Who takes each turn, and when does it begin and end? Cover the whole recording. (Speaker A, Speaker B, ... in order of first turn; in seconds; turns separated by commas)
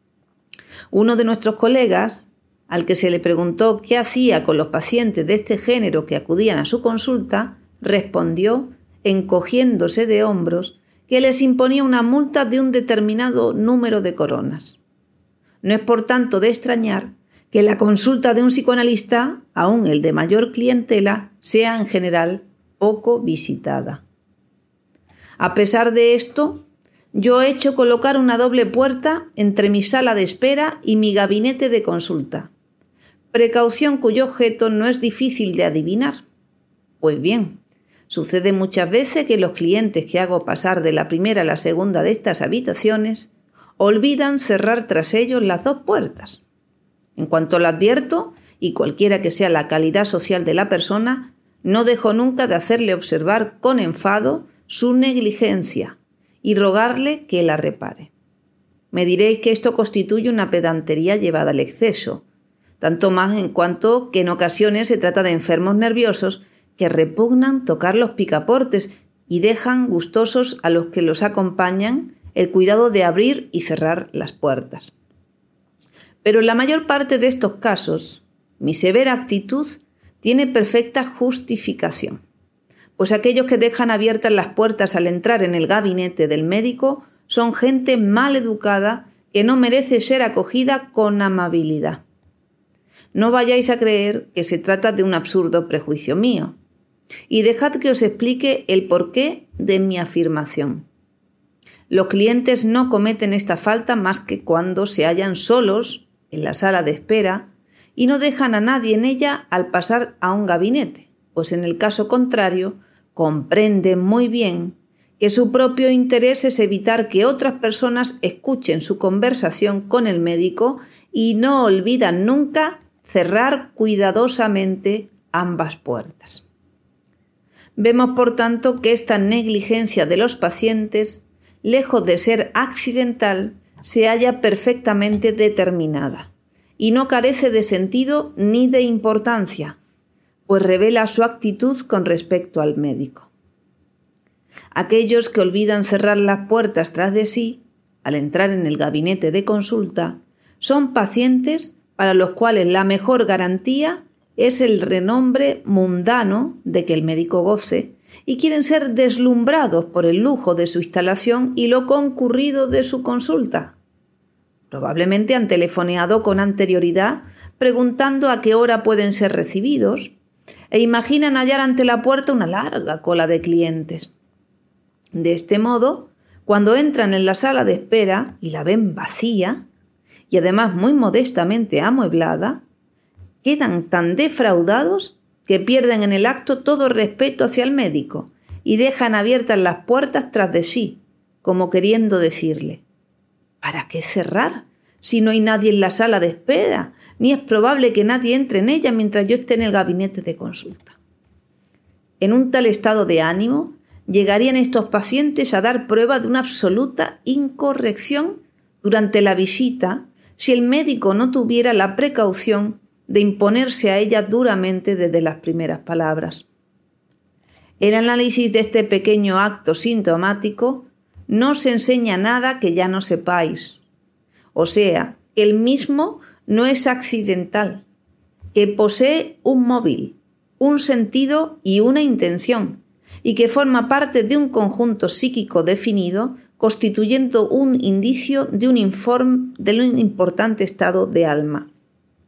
Speaker A: 0.9-14.8, Speaker A: 15.6-24.0, Speaker A: 25.4-32.5, Speaker A: 33.3-36.2, Speaker A: 37.0-46.4, Speaker A: 47.2-58.1, Speaker A: 58.9-62.2, Speaker A: 62.8-74.9, Speaker A: 76.2-82.2, Speaker A: 83.0-92.0, Speaker A: 93.1-96.6, Speaker A: 97.3-100.9, Speaker A: 101.9-126.5, Speaker A: 127.8-139.8, Speaker A: 140.5-143.3, Speaker A: 144.7-163.8, Speaker A: 164.7-170.1, Speaker A: 170.7-174.1, Speaker A: 175.1-179.7, Speaker A: 180.3-182.6, Speaker A: 183.4-192.8, Speaker A: 193.6-201.0, Speaker A: 202.2-216.5, Speaker A: 217.8-223.8, Speaker A: 224.6-227.8, Speaker A: 228.5-241.7